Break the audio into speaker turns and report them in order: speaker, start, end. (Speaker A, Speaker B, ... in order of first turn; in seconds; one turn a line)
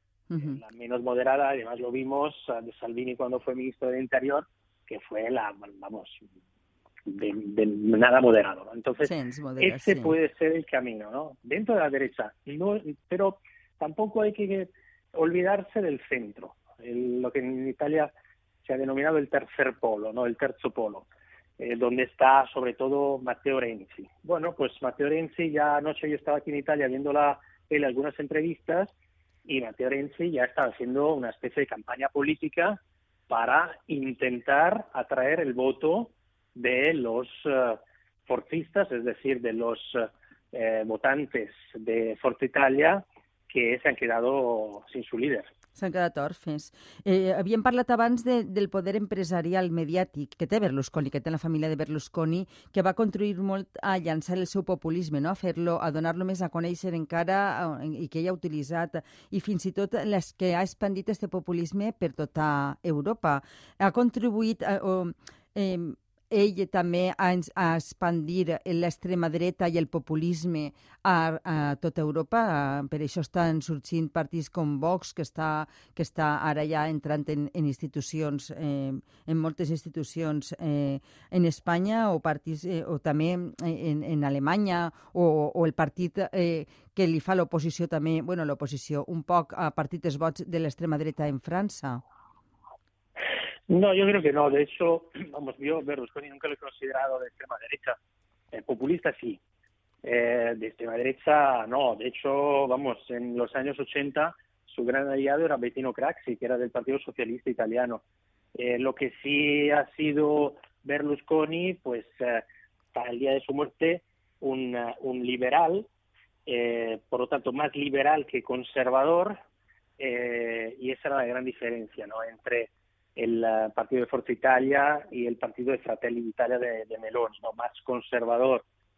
Speaker A: 0.3-0.6
Speaker B: 0.4-6.2
Speaker B: 7.1-18.1
Speaker A: 9.0-10.2
Speaker B: 18.6-21.1
Speaker B: 21.6-28.9
Speaker B: 29.4-45.5
Speaker A: 45.8-92.0
Speaker B: 93.7-98.0
Speaker B: 98.5-99.4
Speaker B: 100.0-108.0
Speaker B: 108.5-115.9
Speaker B: 116.5-119.4
Speaker B: 120.0-128.7